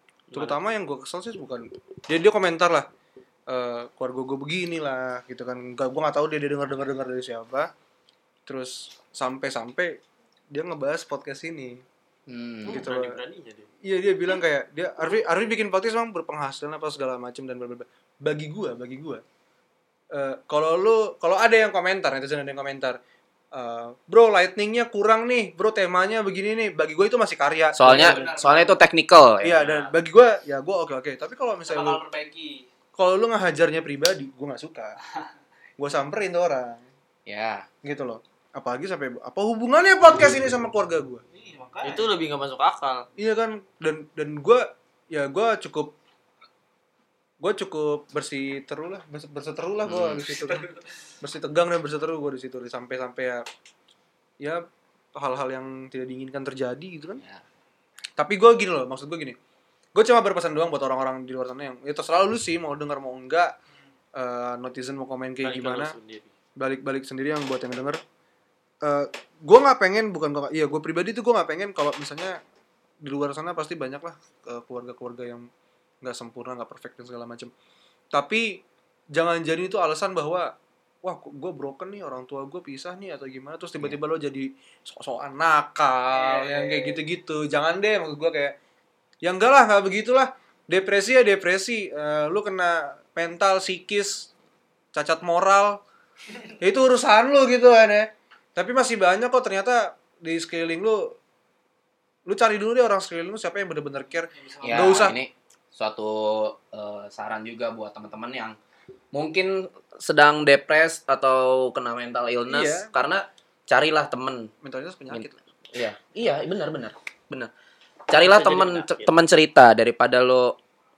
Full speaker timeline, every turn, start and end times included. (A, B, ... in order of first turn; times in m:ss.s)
0:00.3-0:00.6 A
0:00.3-0:02.9 B
0:03.5-0:07.7 B
0:08.5-0:10.0 B
0:10.5-0:11.8 B
0:12.3-0:12.8 C
0:12.7-0:13.7 A
0:12.7-0:13.2 B
0:13.8-0:19.2 B
0:20.1-0:23.0 B
0:23.5-0:28.2 B
0:27.7-0:29.7 C
0:27.8-0:28.8 D
0:29.4-0:32.0 B
0:29.6-0:29.9 D
0:31.7-0:32.6 D
0:33.0-0:35.0 B
0:35.8-0:36.8 B
0:37.3-0:37.7 C
0:37.8-0:41.2 B
0:41.3-0:42.1 D
0:41.8-0:43.1 A
0:43.2-0:46.0 B
0:47.4-0:53.4 B
0:49.8-0:50.5 C
0:55.2-0:57.2 B
0:58.2-0:59.4 B
1:00.0-1:03.5 B
1:04.2-1:06.0 B
1:05.4-1:06.3 A
1:06.6-1:08.0 B
1:08.8-1:12.4 B
1:13.0-1:15.5 B
1:16.0-1:17.5 B
1:18.1-1:18.6 B
1:19.1-1:28.6 B
1:26.3-1:27.0 D
1:29.2-1:34.3 B
1:34.9-1:35.8 B
1:36.6-1:41.2 B
1:42.3-1:45.2 B
1:44.3-1:45.0 D
1:44.6-1:48.6 C
1:49.1-1:54.5 C
1:52.5-1:52.9 B
1:54.6-1:55.4 B
1:55.1-1:57.5 C
1:58.1-2:00.6 C
1:58.1-1:59.1 A